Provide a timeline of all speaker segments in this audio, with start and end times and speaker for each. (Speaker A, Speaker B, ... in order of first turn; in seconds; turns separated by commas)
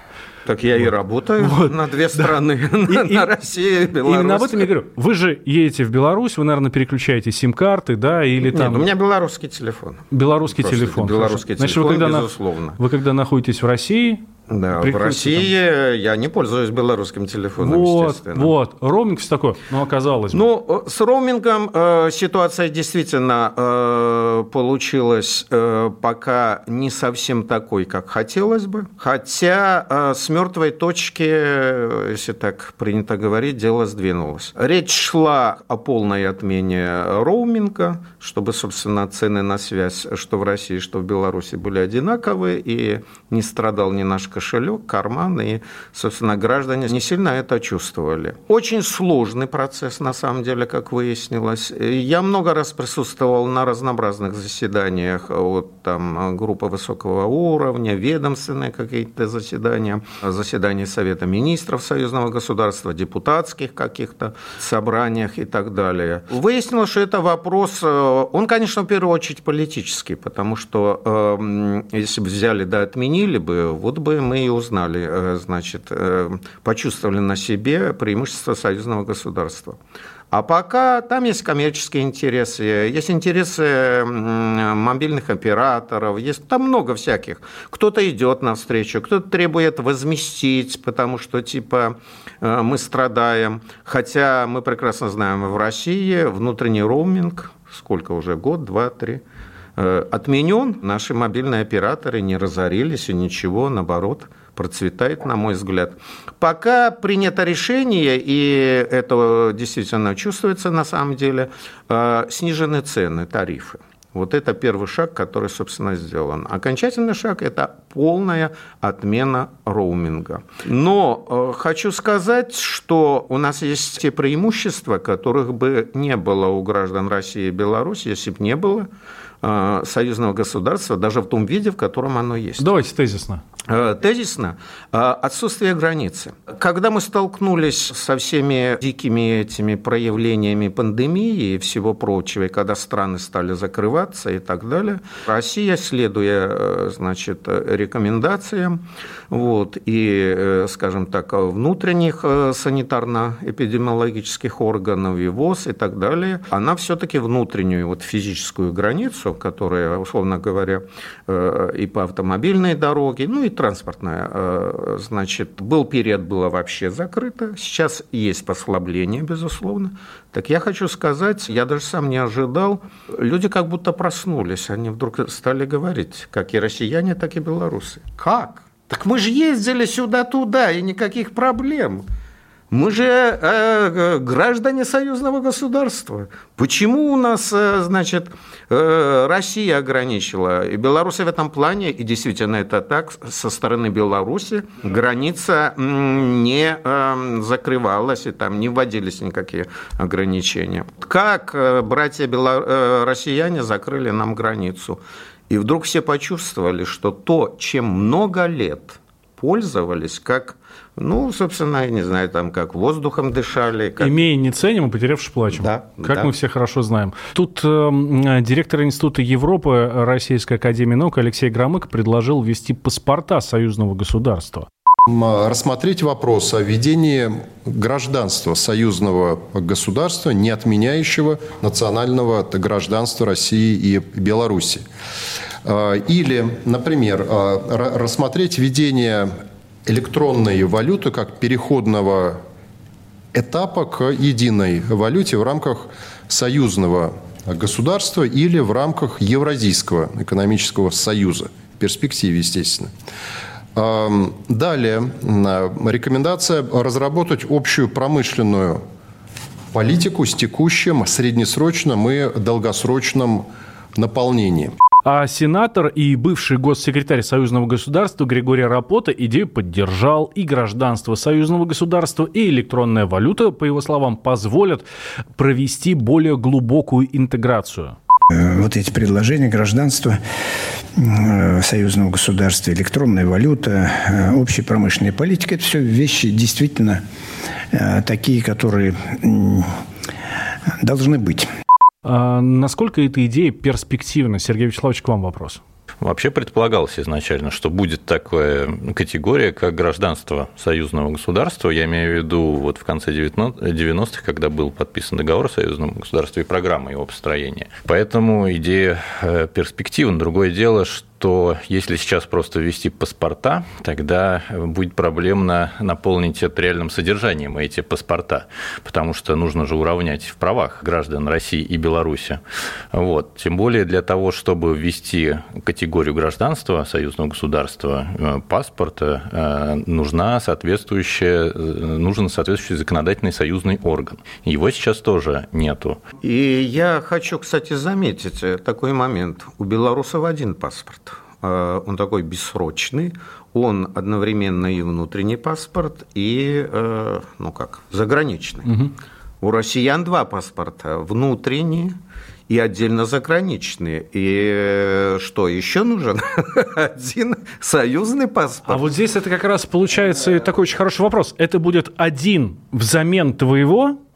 Speaker A: 0.5-4.7, Speaker B: 1.4-2.3, Speaker B: 2.9-3.3, Speaker B: 4.0-8.9, Speaker A: 8.5-12.8, Speaker B: 10.1-14.2, Speaker A: 14.5-18.5, Speaker B: 14.8-15.5, Speaker B: 17.6-20.4, Speaker A: 20.3-79.8, Speaker A: 80.3-99.2, Speaker A: 99.8-128.9, Speaker A: 129.4-132.7, Speaker B: 132.6-133.4, Speaker A: 133.7-182.1, Speaker A: 182.7-214.1, Speaker B: 214.0-224.7, Speaker A: 215.5-216.3, Speaker C: 225.1-234.8, Speaker C: 235.6-242.4, Speaker C: 243.3-252.9, Speaker C: 253.7-258.8, Speaker C: 259.7-264.7, Speaker B: 265.0-274.9, Speaker B: 275.4-278.0, Speaker D: 278.3-280.2, Speaker D: 280.9-287.0, Speaker D: 287.7-289.8, Speaker D: 290.8-291.5, Speaker B: 292.0-295.6, Speaker E: 296.0-322.4, Speaker E: 322.9-336.0, Speaker A: 336.2-348.7, Speaker B: 348.7-348.9, Speaker A: 349.4-352.0, Speaker A: 352.5-358.9, Speaker B: 358.6-364.0